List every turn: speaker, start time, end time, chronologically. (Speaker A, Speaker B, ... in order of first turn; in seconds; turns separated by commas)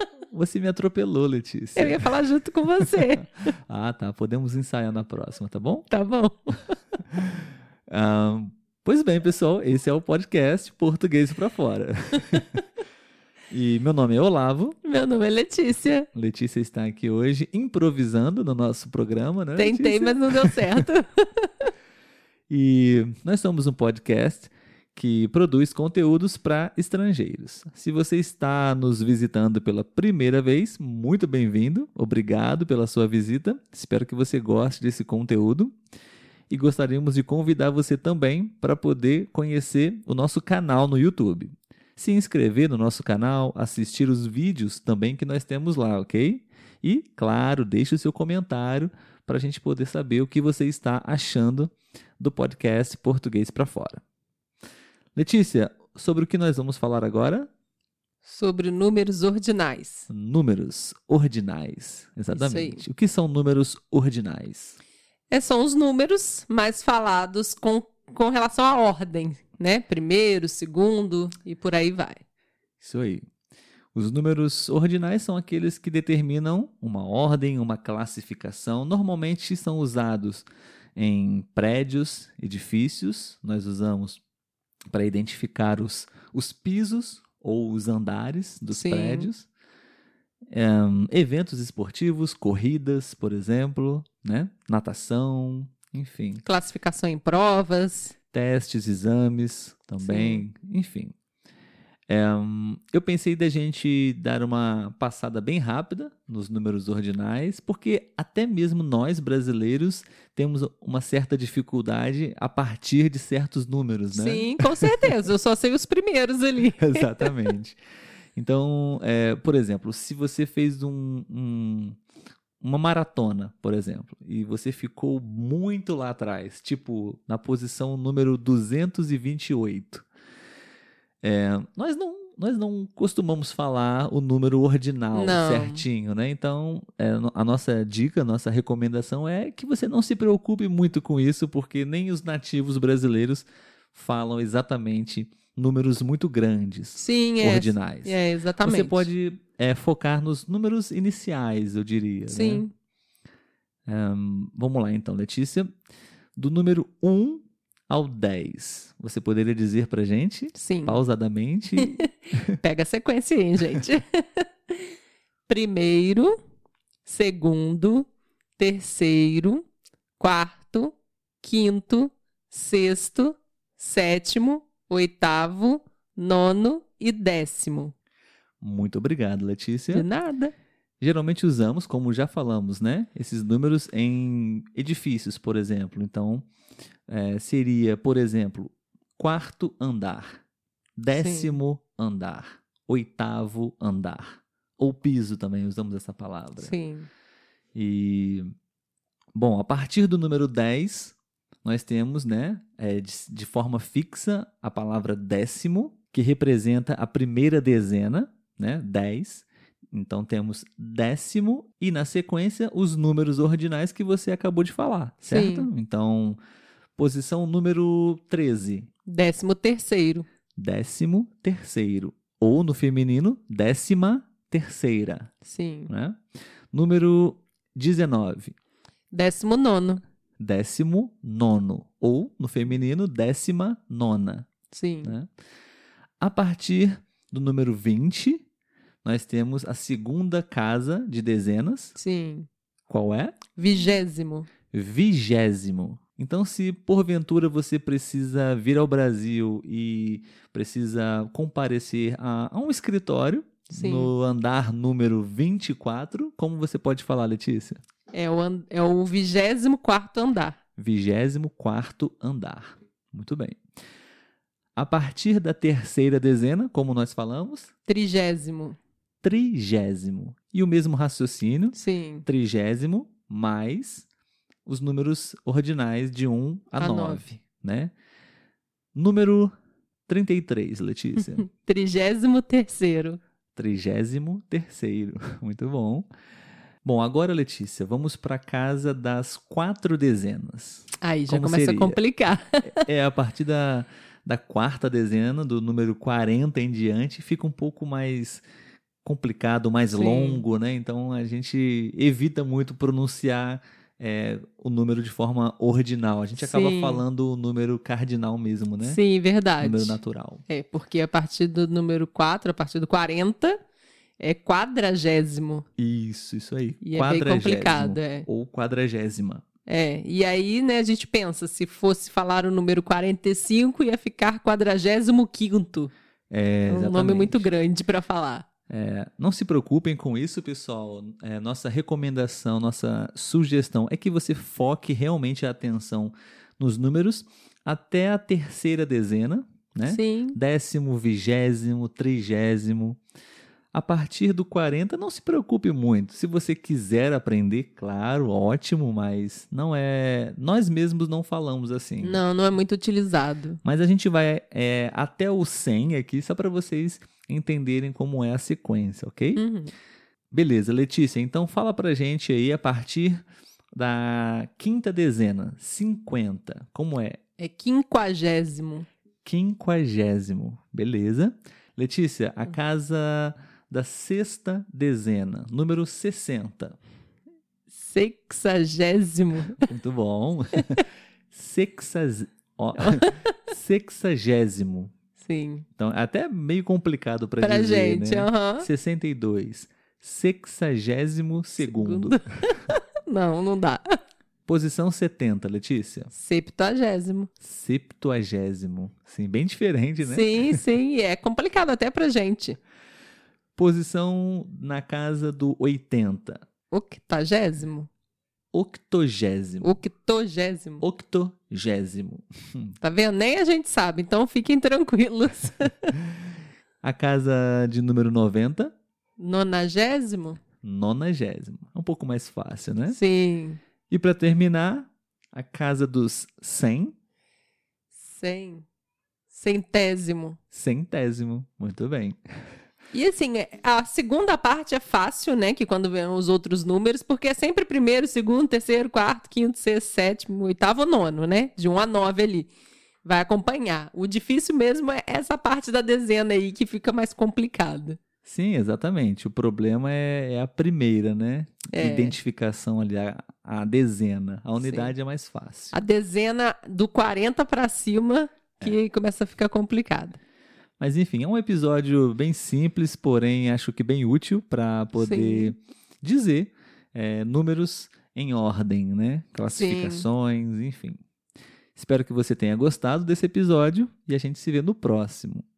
Speaker A: 0.3-2.1, Speaker B: 1.8-3.5, Speaker A: 2.8-5.9, Speaker B: 5.9-6.8, Speaker A: 7.9-12.6, Speaker A: 13.5-14.8, Speaker B: 14.8-16.1, Speaker A: 16.1-20.8, Speaker B: 19.6-21.7, Speaker A: 22.5-35.8, Speaker A: 36.5-54.0, Speaker A: 55.2-57.5, Speaker B: 58.2-60.1, Speaker A: 60.1-64.8, Speaker B: 62.3-62.8, Speaker B: 65.3-72.2, Speaker A: 72.8-73.3, Speaker A: 74.0-80.5, Speaker A: 81.0-84.2, Speaker A: 84.9-89.5, Speaker B: 88.7-89.3, Speaker A: 90.5-96.4, Speaker B: 96.5-98.2, Speaker A: 98.3-101.1, Speaker B: 100.0-100.5, Speaker A: 102.1-115.1, Speaker B: 114.1-117.5, Speaker A: 116.8-117.8, Speaker A: 118.4-122.0, Speaker A: 122.6-130.1, Speaker A: 131.2-152.6, Speaker B: 135.1-135.8, Speaker B: 146.9-149.1, Speaker B: 152.3-152.7, Speaker A: 153.9-155.7, Speaker A: 156.3-162.6, Speaker B: 160.5-161.0, Speaker B: 161.8-164.9, Speaker B: 165.5-166.3, Speaker B: 167.1-169.7, Speaker B: 170.2-177.9, Speaker A: 178.6-180.1, Speaker B: 179.9-180.5, Speaker A: 181.0-186.5, Speaker A: 187.1-190.4, Speaker A: 191.0-196.7, Speaker B: 191.1-191.6, Speaker B: 196.6-197.1, Speaker A: 197.7-198.5, Speaker A: 199.3-216.4, Speaker B: 215.2-215.7, Speaker A: 217.0-218.9, Speaker B: 219.1-220.3, Speaker A: 220.6-225.3, Speaker B: 225.4-225.9, Speaker A: 225.9-226.2, Speaker A: 226.7-228.6, Speaker B: 229.1-230.0, Speaker A: 230.4-234.5, Speaker B: 234.7-235.2, Speaker A: 236.2-238.4, Speaker A: 239.0-241.9, Speaker B: 241.9-242.5, Speaker A: 242.9-243.4, Speaker B: 243.6-244.5, Speaker A: 244.7-257.8, Speaker B: 253.7-254.1, Speaker B: 258.1-260.6, Speaker A: 260.8-263.6, Speaker A: 264.8-267.7, Speaker B: 267.9-268.8, Speaker A: 269.2-274.1, Speaker B: 271.7-272.3, Speaker A: 274.7-277.9, Speaker B: 276.8-277.3, Speaker A: 278.9-279.5, Speaker A: 280.1-281.5, Speaker B: 281.3-283.2, Speaker A: 283.6-286.1, Speaker A: 286.8-292.0, Speaker B: 291.0-292.9, Speaker A: 292.6-298.4, Speaker A: 299.0-309.0, Speaker B: 299.9-300.4, Speaker B: 306.4-307.1, Speaker B: 308.8-313.6, Speaker A: 309.6-310.4, Speaker B: 314.2-315.6, Speaker A: 315.8-319.4, Speaker B: 316.8-318.3, Speaker B: 319.7-325.9, Speaker A: 326.3-327.5, Speaker B: 326.7-328.5, Speaker A: 328.7-343.0, Speaker B: 339.9-340.4, Speaker A: 343.7-352.2, Speaker B: 352.0-353.6, Speaker A: 353.6-359.4, Speaker B: 359.4-359.7, Speaker A: 360.3-363.2, Speaker A: 363.8-367.2, Speaker B: 367.4-368.9, Speaker A: 369.2-376.8, Speaker B: 377.8-379.7, Speaker A: 379.6-384.9, Speaker B: 382.8-383.3, Speaker B: 385.2-385.6, Speaker A: 385.8-392.2, Speaker B: 387.4-388.7, Speaker B: 391.6-394.0, Speaker A: 394.5-396.1, Speaker B: 396.1-397.3, Speaker A: 397.4-400.6, Speaker B: 400.0-402.6, Speaker A: 403.6-406.4, Speaker B: 406.7-407.9, Speaker A: 408.5-409.7, Speaker B: 409.6-410.8, Speaker A: 410.8-412.8, Speaker B: 412.8-415.9, Speaker A: 416.8-418.7, Speaker B: 419.2-420.4, Speaker A: 420.6-423.0, Speaker B: 422.9-423.6, Speaker A: 423.9-426.9, Speaker B: 428.0-428.7, Speaker B: 429.3-430.4, Speaker A: 430.5-432.2, Speaker B: 432.9-442.5, Speaker B: 443.0-448.0, Speaker A: 448.2-455.8, Speaker B: 451.7-452.2, Speaker B: 454.6-454.9, Speaker B: 455.7-460.2, Speaker A: 460.8-471.0, Speaker B: 464.9-465.5, Speaker B: 469.5-470.1, Speaker A: 471.8-475.4